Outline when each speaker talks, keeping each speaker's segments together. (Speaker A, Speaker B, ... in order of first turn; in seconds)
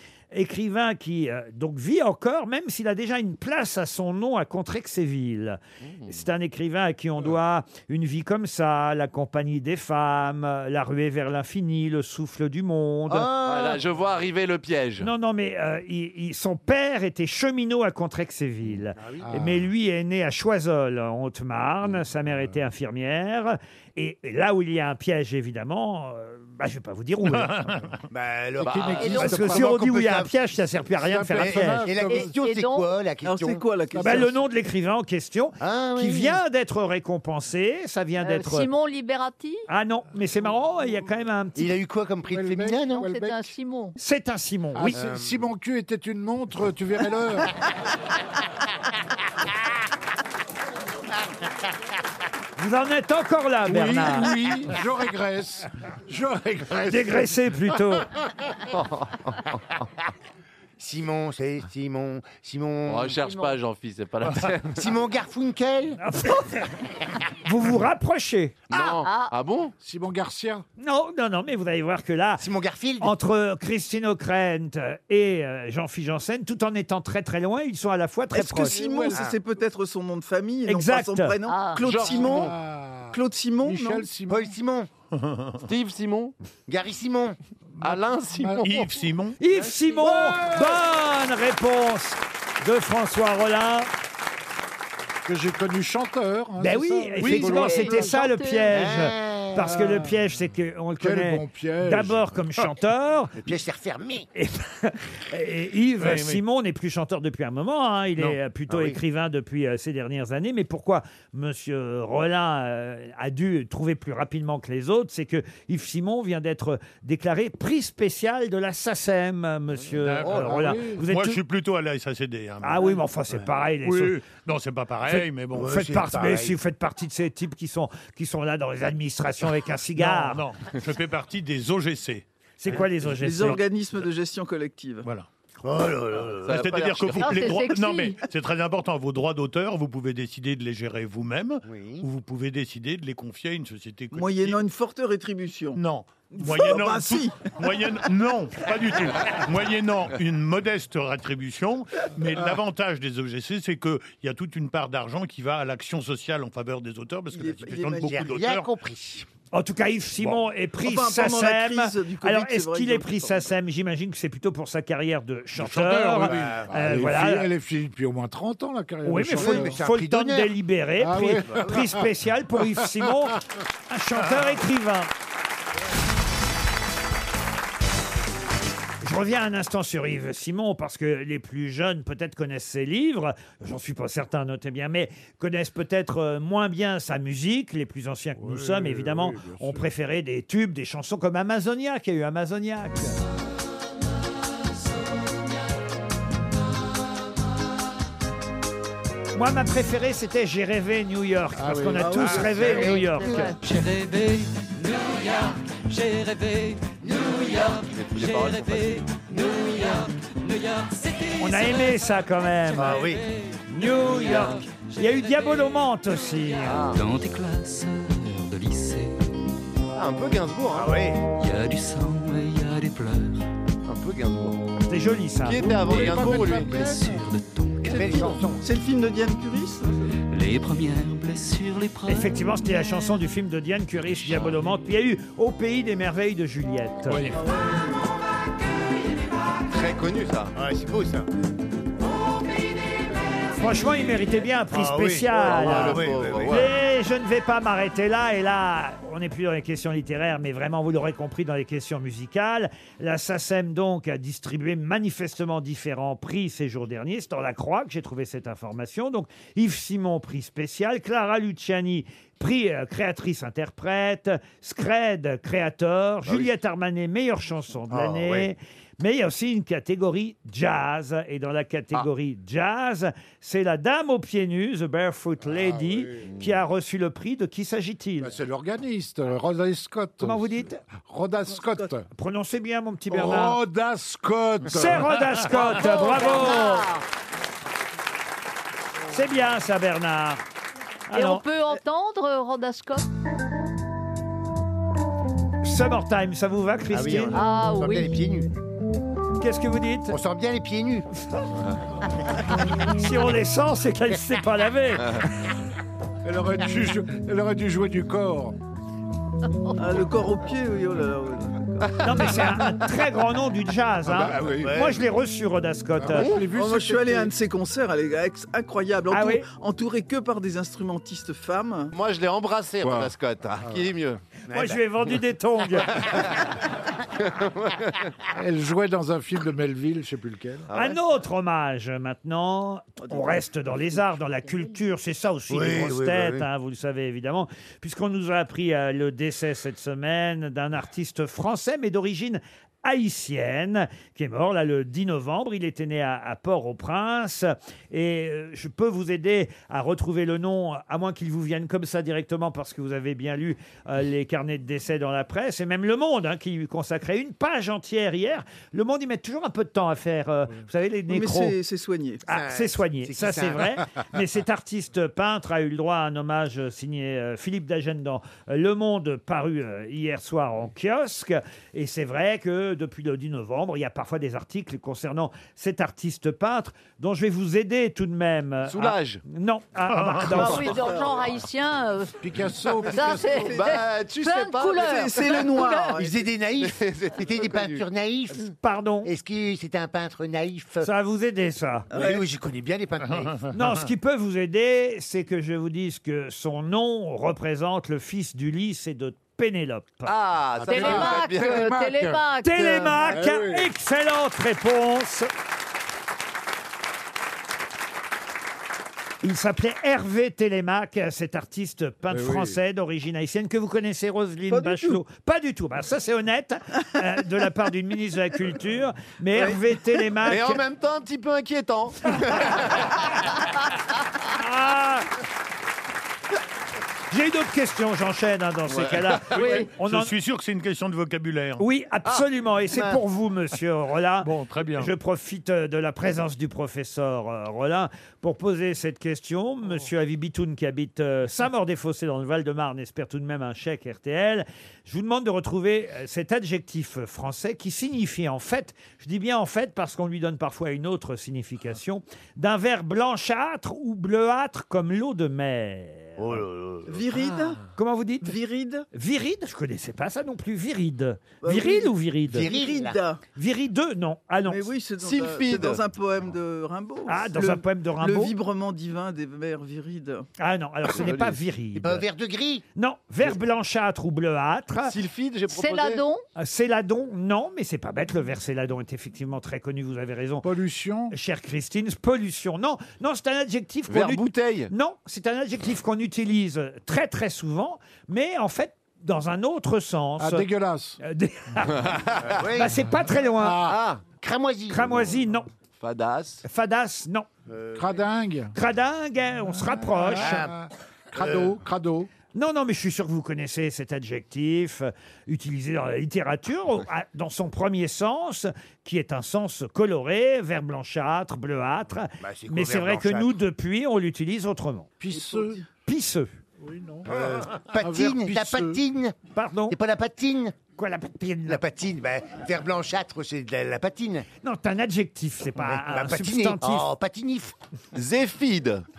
Speaker A: 0.3-13.3, 15.0-27.7, 29.1-31.9, 34.0-38.7, 39.7-41.7, 44.0-45.0, 52.6-54.3, 56.9-58.1, 66.0-66.7, 67.4-68.6, 70.8-72.5, 73.0-78.8, 80.7-81.3, 89.4-93.9, 96.6-103.4, 104.3-121.4, 122.6-124.2, 125.1-130.4, 132.6-133.6, 159.5-167.5, 169.0-175.1, 179.0-193.2, 199.3-203.5, 211.4-213.0, 213.7-216.9, 224.9-225.7, 232.1-237.2, 243.6-278.3, 280.2-280.9, 282.1-283.6, 284.7-286.9, 289.1-290.4, 291.1-291.4, 295.6-297.4, 299.4-300.2, 302.9-305.2, 312.0-316.3, 319.1-319.5, 324.5-326.1, 330.7-361.6, 362.2-380.8, 388.6-389.1, 390.8-391.9, 393.5-400.1, 402.4-405.3, 409.2-420.6, 424.3-425.1, 427.1-430.1, 431.6-456.4, 457.8-458.4, 458.9-462.5, 463.4-464.7, 467.1-468.3, 470.4-472.1, 472.8-474.9, 476.4-480.5, 481.1-490.5, 491.0-493.6, 494.7-495.5, 496.4-497.3, 498.5-500.5, 502.4-514.9, 515.9-516.3, 519.4-519.8, 520.8-521.6, 524.4-526.9
Speaker B: 5.8-6.1, 13.4-15.1, 28.6-29.2, 58.7-59.5, 62.9-64.9, 68.7-69.7, 81.9-82.5, 85.7-86.3, 87.8-88.7, 136.4-137.5, 207.8-209.0, 216.7-217.0, 220.0-220.9, 223.8-224.6, 225.4-226.8, 239.7-240.5, 245.4-246.7, 321.9-324.2, 327.2-328.0, 330.7-331.0, 378.7-379.2, 380.3-380.8, 383.3-385.4, 386.6-387.8, 400.1-401.7, 420.3-422.6, 428.7-429.7, 465.0-465.8, 474.9-476.0, 483.9-484.7, 491.8-492.3, 493.7-494.0, 495.8-496.4, 527.9-528.8
Speaker C: 13.1-13.8, 19.0-19.3, 28.1-30.4, 31.4-33.6, 35.6-36.4, 41.6-43.1, 45.0-45.4, 60.8-63.3, 64.7-66.0, 72.4-73.1, 84.3-84.9, 86.7-87.4, 98.7-99.7, 103.4-104.3, 108.7-109.0, 125.5-126.6, 135.6-136.7, 141.6-142.1, 158.0-159.3, 166.3-166.7, 169.4-170.5, 202.5-203.2, 212.8-213.3, 220.7-221.2, 227.9-228.7, 240.6-241.3, 244.7-246.7, 267.9-268.5, 296.9-298.5, 300.1-301.1, 314.1-315.0, 324.5-324.8, 335.5-336.5, 362.3-363.8, 385.9-388.5, 389.0-390.9, 391.9-393.4, 456.2-457.0, 462.3-463.0, 471.8-472.6, 492.4-492.9, 494.2-495.1, 497.5-498.1, 500.1-500.6, 501.1-501.6, 512.2-513.4, 517.1-519.2, 519.7-520.6, 521.5-524.3, 525.6-527.5
Speaker D: 19.2-19.6, 28.6-29.7, 30.9-32.3, 34.0-34.3, 42.3-43.5, 44.8-47.5, 53.7-57.4, 69.8-70.7, 78.6-79.2, 81.9-84.5, 87.8-88.8, 90.0-90.7, 95.3-98.2, 99.6-100.3, 101.0-102.3, 120.3-121.0, 166.2-169.8, 171.0-172.0, 188.4-189.9, 201.6-202.5, 225.7-227.2, 275.4-276.3, 278.2-282.1, 283.1-285.3, 306.2-308.6, 314.2-314.7, 316.0-317.3, 322.8-323.8, 328.3-330.7, 382.2-383.5, 400.6-403.7, 412.1-412.6, 480.4-481.1, 490.2-491.0, 493.1-493.8, 497.8-498.5, 499.5-502.1, 515.0-515.6, 516.6-518.8
Speaker E: 27.3-27.9, 85.1-85.7, 88.6-89.4, 106.0-106.4, 120.0-123.0, 123.8-125.8, 130.0-132.2, 136.5-144.6, 145.8-158.7, 165.6-166.4, 237.1-237.4, 379.9-380.5, 393.1-393.7, 429.4-431.6, 434.2-434.9
Speaker F: 29.1-29.4, 32.0-32.9, 38.2-39.7, 42.9-44.0, 63.2-63.5, 68.8-69.3, 81.5-81.9, 97.2-99.0, 137.2-138.2, 202.8-203.6, 285.5-287.0, 291.1-293.1, 297.3-298.2, 380.3-382.2, 382.9-385.9, 400.7-403.1, 429.4-429.7, 475.5-476.2
Speaker G: 33.2-34.3, 78.3-82.5, 83.1-84.0, 133.1-135.1, 144.1-145.8, 146.3-147.5, 157.3-158.3, 160.8-163.5, 202.0-202.9, 228.1-230.1, 281.5-281.9, 309.8-312.4, 316.5-321.9, 333.1-333.4, 361.1-362.2, 380.7-381.3, 384.8-386.2, 391.9-392.2, 414.5-415.0, 419.3-419.6, 456.9-457.6, 458.2-458.9, 461.4-463.2, 464.5-470.3, 515.1-515.7
Speaker H: 203.6-215.7, 216.9-219.4, 221.3-223.5, 225.8-228.4, 230.3-232.6